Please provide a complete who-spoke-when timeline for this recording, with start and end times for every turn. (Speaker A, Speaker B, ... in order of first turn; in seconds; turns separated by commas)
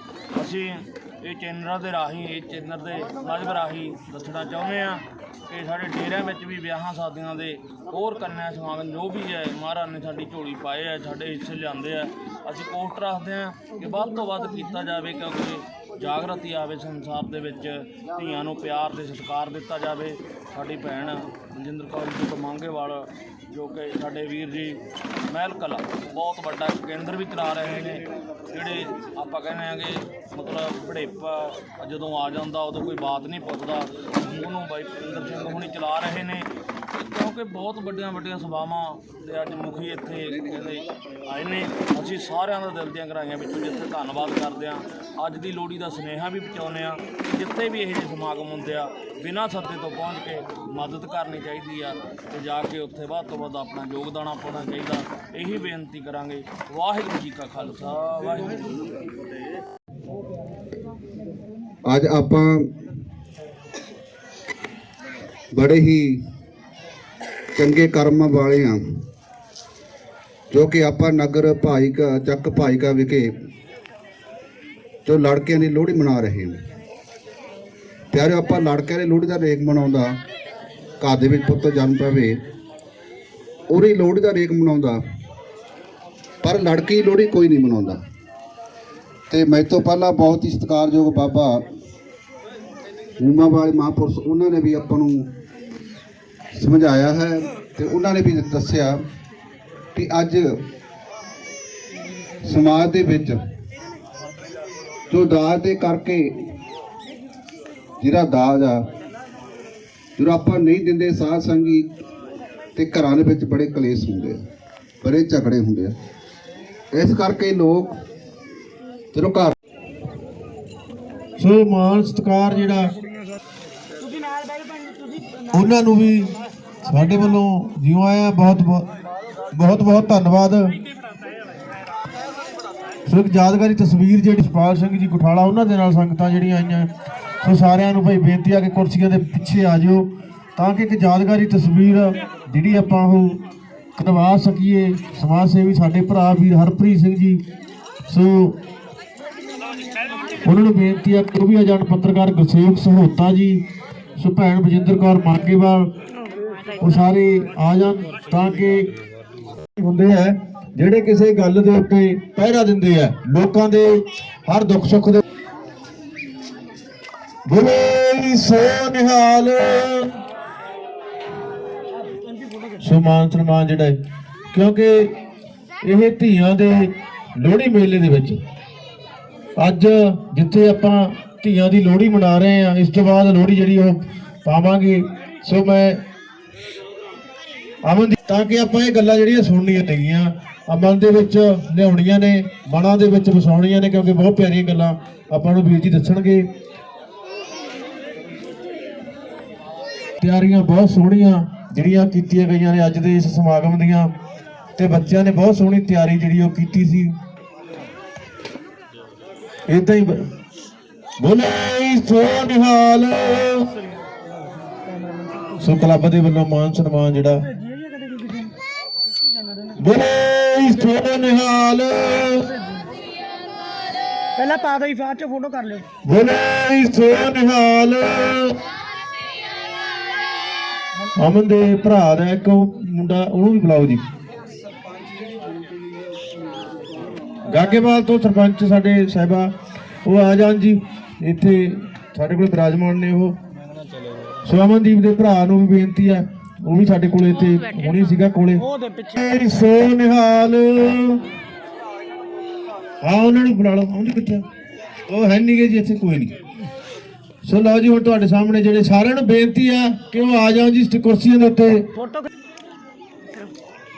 Speaker A: 0.3-59.0, Speaker B: 61.9-62.6, Speaker B: 65.5-66.2, Speaker B: 67.5-68.8, Speaker B: 70.5-73.3, Speaker B: 75.0-76.6, Speaker B: 78.1-80.1, Speaker B: 81.0-82.3, Speaker B: 83.7-85.0, Speaker B: 86.4-88.0, Speaker B: 89.3-91.6, Speaker B: 93.2-95.2, Speaker B: 96.5-99.0, Speaker B: 99.9-100.4, Speaker B: 102.4-103.4, Speaker B: 105.1-106.3, Speaker B: 108.0-108.8, Speaker B: 110.2-111.8, Speaker B: 112.8-114.4, Speaker B: 115.0-115.9, Speaker B: 116.9-117.9, Speaker B: 119.1-119.5, Speaker C: 121.4-122.9, Speaker D: 124.0-125.4, Speaker C: 125.5-126.3, Speaker C: 126.8-128.9, Speaker C: 129.5-130.8, Speaker C: 133.1-136.9, Speaker C: 137.4-143.4, Speaker C: 144.0-147.4, Speaker C: 148.1-148.6, Speaker C: 150.4-153.6, Speaker C: 154.2-155.9, Speaker C: 156.8-158.9, Speaker C: 159.8-165.2, Speaker C: 167.5-170.1, Speaker C: 172.8-174.0, Speaker C: 174.5-175.1, Speaker C: 175.8-178.4, Speaker C: 179.6-186.0, Speaker C: 187.8-196.4, Speaker C: 200.2-204.1, Speaker C: 204.8-207.1, Speaker C: 209.7-210.2, Speaker C: 211.2-213.7, Speaker D: 214.9-215.5, Speaker C: 215.6-217.4, Speaker D: 217.5-218.5, Speaker D: 219.4-219.7, Speaker C: 219.8-222.6, Speaker D: 224.4-225.8, Speaker C: 226.1-228.6, Speaker C: 231.1-234.0, Speaker C: 237.4-239.5, Speaker C: 240.1-243.3, Speaker C: 244.4-251.2, Speaker D: 248.6-249.2, Speaker C: 253.0-254.4, Speaker C: 255.1-256.4, Speaker C: 257.4-261.8, Speaker D: 261.9-262.3